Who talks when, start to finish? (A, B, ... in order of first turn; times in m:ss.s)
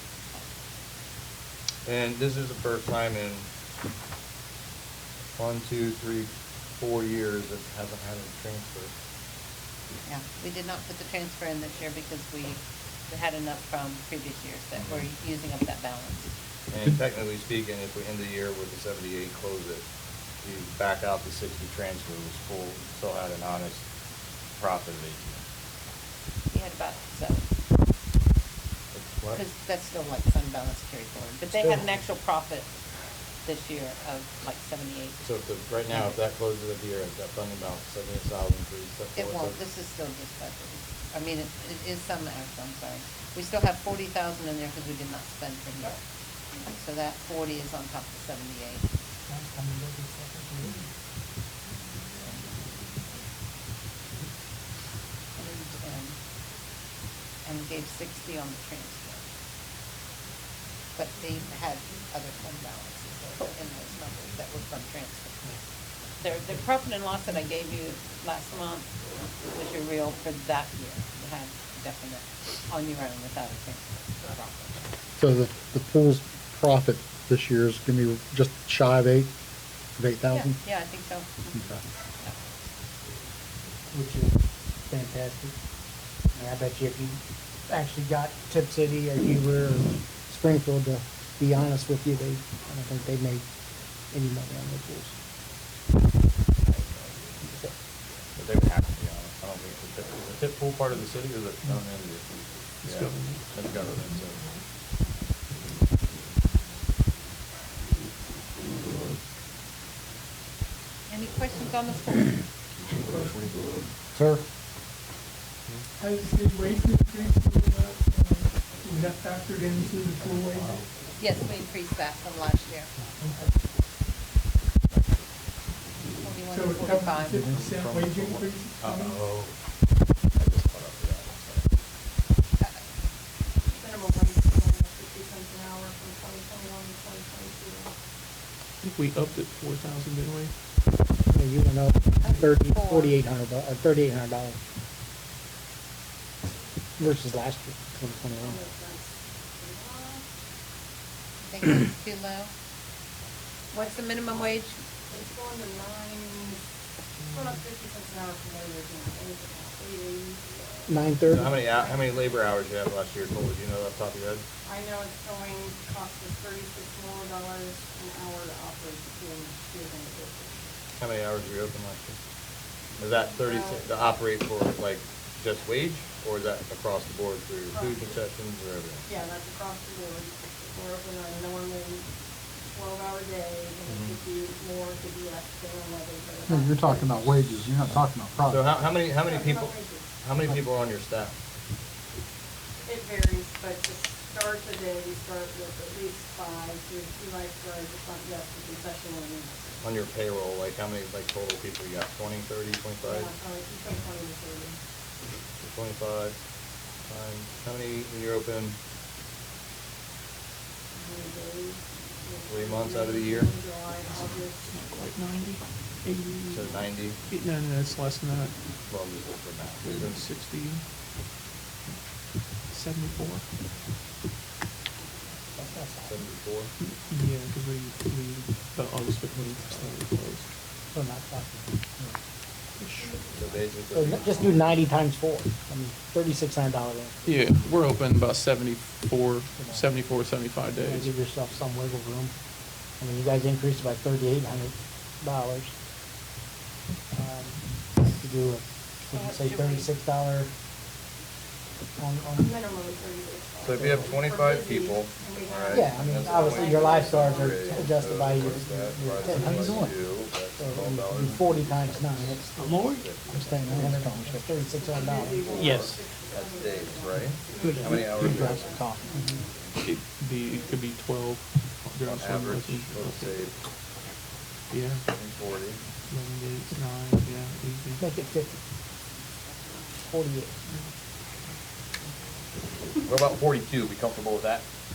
0:01.8-0:03.5 A
0:05.3-0:08.9 A
0:10.0-0:16.3 B
0:14.8-0:15.1 A
0:16.7-0:19.8 A
0:20.4-0:23.8 A
0:24.6-0:25.4 A
0:26.5-0:27.4 B
0:28.9-0:29.4 A
0:29.3-0:32.8 B
0:31.6-0:31.9 A
0:33.4-0:35.2 B
0:35.2-0:39.6 A
0:35.9-0:36.2 B
0:39.2-0:46.0 B
0:46.6-0:48.9 B
0:49.3-0:50.8 C
0:55.4-0:56.2 B
0:57.4-0:59.2 B
1:00.9-1:05.6 B
1:06.2-1:14.9 B
1:15.2-1:19.3 D
1:20.0-1:20.6 D
1:20.2-1:22.4 B
1:23.9-1:25.6 C
1:26.3-1:33.4 C
1:34.1-1:35.1 C
1:36.6-1:37.3 A
1:38.4-1:42.3 A
1:42.8-1:43.4 E
1:42.8-1:44.4 A
1:51.1-1:52.4 B
1:53.0-1:53.6 F
1:54.1-1:54.4 C
1:56.0-2:00.8 F
2:00.4-2:00.8 A
2:01.2-2:02.9 B
2:04.9-2:05.2 A
2:06.2-2:07.4 B
2:06.5-2:09.2 F
2:08.2-2:09.6 A
2:10.3-2:11.7 A
2:13.7-2:17.8 G
2:18.8-2:20.5 E
2:21.3-2:24.6 C
2:22.2-2:23.2 B
2:27.0-2:28.6 C
2:28.8-2:30.2 G
2:31.5-2:32.5 B
2:33.7-2:34.8 B
2:35.1-2:36.6 G
2:37.3-2:40.8 G
2:40.9-2:41.6 C
2:41.3-2:44.4 A
2:41.7-2:42.3 G
2:44.7-2:50.6 G
2:51.0-2:52.2 A
2:53.0-2:59.1 A
2:53.2-2:53.9 G
2:57.7-2:58.1 G
2:59.0-3:02.0 G
3:02.7-3:07.4 G
3:03.9-3:04.1 A
3:06.5-3:08.6 D
3:08.4-3:11.3 A
3:09.2-3:10.0 G
3:12.8-3:19.5 G
3:19.8-3:23.3 A
3:23.0-3:24.8 G
3:25.6-3:26.4 A
3:27.0-3:28.8 A
3:31.0-3:34.6 G
3:32.5-3:33.5 A
3:34.6-3:38.5 E
3:36.5-3:37.2 A
3:38.8-3:40.2 A
3:39.8-3:40.8 E
3:42.6-3:43.5 E
3:45.6-3:46.2 C
3:46.0-3:46.7 A
3:46.8-3:50.5 E
3:50.9-3:52.1 C
3:52.8-3:53.4 E
3:53.3-3:54.8 A
3:53.9-3:57.2 C
3:57.2-4:01.1 E
3:59.6-3:59.9 C
4:00.8-4:02.3 C
4:03.0-4:05.7 C
4:07.1-4:10.5 C
4:09.1-4:09.9 B
4:12.0-4:12.5 C
4:12.4-4:17.6 G
4:13.6-4:24.2 A
4:13.8-4:14.1 C
4:15.7-4:22.6 C
4:18.4-4:18.6 E
4:19.2-4:19.8 E
4:22.6-4:23.0 E
4:23.3-4:25.8 C
4:24.7-4:29.6 G
4:24.9-4:29.0 A
4:25.6-4:25.9 E
4:27.6-4:29.4 C
4:29.8-4:33.4 E
4:32.0-4:33.5 A
4:34.7-4:35.0 E
4:35.1-4:35.8 A
4:36.1-4:38.0 E
4:38.0-4:38.6 C
4:40.0-4:40.6 C
4:43.0-4:44.6 A